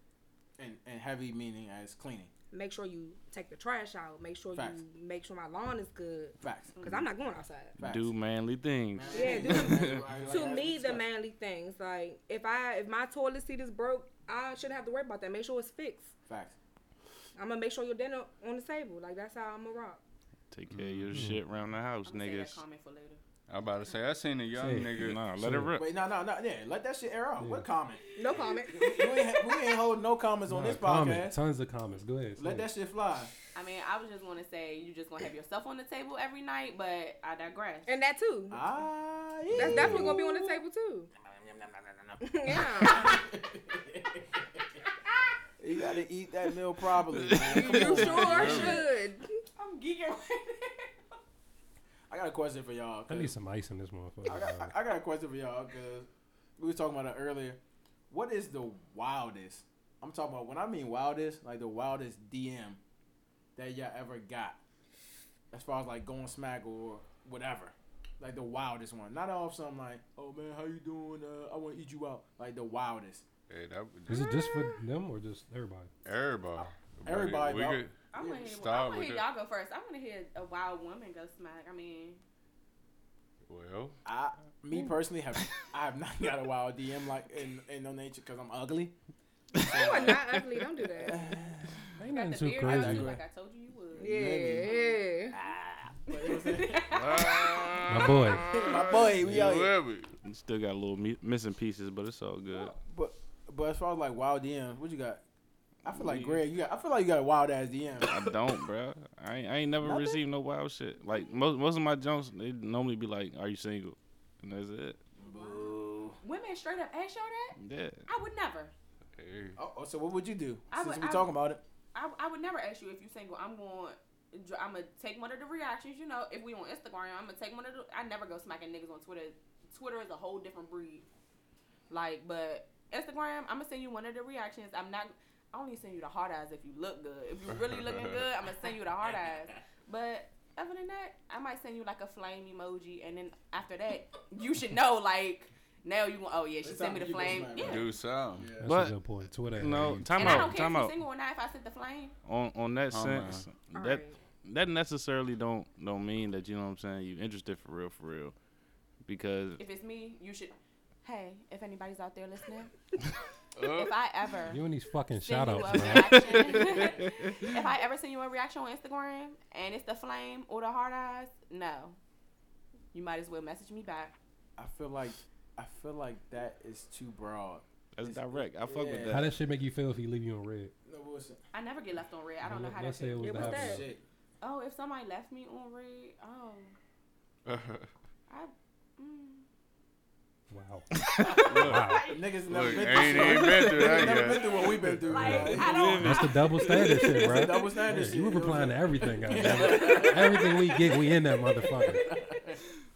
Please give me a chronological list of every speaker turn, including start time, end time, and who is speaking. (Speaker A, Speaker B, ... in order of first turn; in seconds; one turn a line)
Speaker A: 0.6-2.3
Speaker B: 2.5-7.8
Speaker A: 4.5-4.8
Speaker A: 6.4-7.0
Speaker A: 7.8-8.1
Speaker C: 7.8-10.0
Speaker A: 8.9-11.1
Speaker B: 9.1-16.1
Speaker A: 16.3-16.6
Speaker B: 17.4-20.0
Speaker C: 20.5-22.6
Speaker D: 20.7-21.2
Speaker E: 21.1-21.4
Speaker F: 22.0-23.2
Speaker D: 23.5-25.2
Speaker E: 24.6-25.8
Speaker C: 24.9-25.8
Speaker A: 25.8-28.0
Speaker E: 27.4-27.7
Speaker B: 28.1-29.3
Speaker F: 28.2-29.2
Speaker A: 28.7-31.4
Speaker E: 30.5-32.7
Speaker A: 32.4-33.3
Speaker F: 33.5-37.9
Speaker B: 37.9-38.6
Speaker A: 38.5-40.6
Speaker B: 39.5-41.1
Speaker D: 39.5-40.0
Speaker A: 41.3-44.8
Speaker B: 42.2-43.2
Speaker A: 45.6-48.8
Speaker C: 47.1-47.6
Speaker F: 47.5-48.8
Speaker B: 47.5-49.4
Speaker D: 48.0-48.8
Speaker F: 49.5-51.0
Speaker A: 52.1-53.3
Speaker E: 53.1-54.7
Speaker A: 54.2-62.8
Speaker A: 63.5-64.6
Speaker A: 65.5-73.2
Speaker D: 73.5-74.3
Speaker E: 74.1-75.9
Speaker B: 74.2-74.6
Speaker D: 76.0-79.3
Speaker A: 76.6-78.2
Speaker F: 78.1-82.2
Speaker D: 83.5-84.0
Speaker A: 84.0-89.0
Speaker A: 89.5-91.8
Speaker B: 89.6-91.4
Speaker E: 92.0-93.2
Speaker F: 92.1-95.0
Speaker A: 92.6-93.2
Speaker A: 93.9-94.7
Speaker B: 94.0-95.3
Speaker A: 95.3-96.9
Speaker F: 96.2-98.7
Speaker D: 96.8-100.1
Speaker E: 97.9-98.6
Speaker A: 98.4-99.7
Speaker C: 100.2-102.7
Speaker A: 102.5-105.2
Speaker A: 105.8-108.3
Speaker C: 105.9-106.4
Speaker C: 108.0-115.0
Speaker A: 109.8-110.2
Speaker A: 115.2-116.2
Speaker F: 116.2-118.7
Speaker C: 117.6-118.0
Speaker D: 119.2-119.6
Speaker A: 119.5-121.6
Speaker F: 120.7-121.3
Speaker F: 121.9-131.0
Speaker F: 131.9-147.9
Speaker D: 137.5-138.2
Speaker A: 146.6-148.6
Speaker D: 147.5-148.6
Speaker E: 148.6-150.6
Speaker C: 148.6-148.9
Speaker C: 149.5-150.9
Speaker F: 150.2-152.1
Speaker C: 152.2-158.3
Speaker D: 152.9-153.5
Speaker B: 153.7-154.2
Speaker C: 159.1-159.6
Speaker F: 159.6-162.7
Speaker D: 163.6-163.9
Speaker F: 163.7-164.6
Speaker E: 164.5-166.8
Speaker F: 165.2-172.0
Speaker F: 172.9-174.1
Speaker A: 174.6-179.3
Speaker C: 177.9-179.3
Speaker E: 179.0-180.7
Speaker A: 180.8-181.4
Speaker F: 181.5-183.6
Speaker E: 182.4-183.9
Speaker B: 183.2-183.8
Speaker A: 183.4-184.0
Speaker F: 184.4-186.7
Speaker D: 187.4-187.9
Speaker F: 188.3-189.4
Speaker E: 190.5-192.1
Speaker F: 191.3-193.3
Speaker D: 191.4-191.9
Speaker A: 192.1-196.0
Speaker D: 192.4-195.3
Speaker F: 194.0-197.2
Speaker E: 195.2-202.1
Speaker C: 195.5-197.1
Speaker A: 197.1-202.7
Speaker F: 199.4-200.3